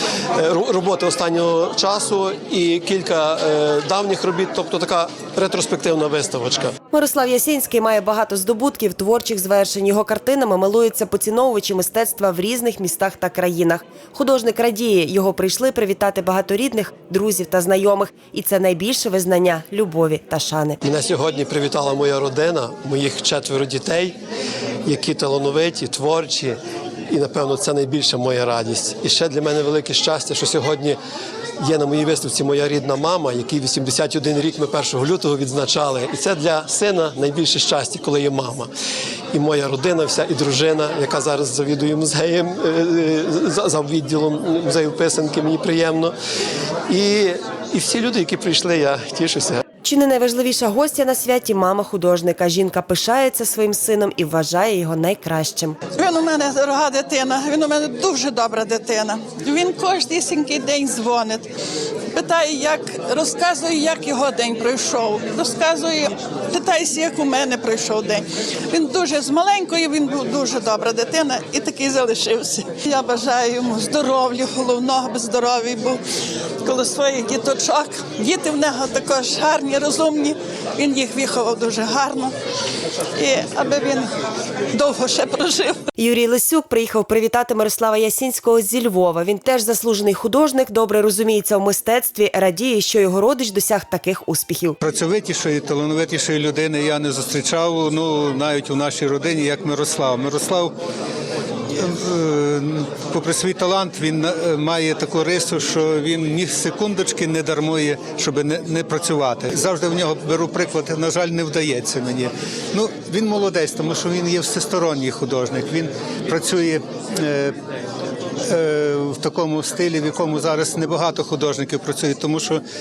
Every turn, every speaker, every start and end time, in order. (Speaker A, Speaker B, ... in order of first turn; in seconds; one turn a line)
Speaker A: 0.3-6.7
Speaker B: 6.9-20.8
Speaker A: 20.8-24.2
Speaker A: 24.8-31.0
Speaker A: 31.6-38.7
Speaker A: 39.3-46.1
Speaker A: 46.9-49.6
Speaker B: 49.8-55.8
Speaker C: 56.0-61.5
Speaker C: 62.1-76.0
Speaker C: 76.6-82.3
Speaker C: 83.2-84.1
Speaker C: 84.7-85.8
Speaker B: 86.0-94.8
Speaker D: 94.8-100.7
Speaker D: 101.7-117.5
Speaker D: 118.5-122.6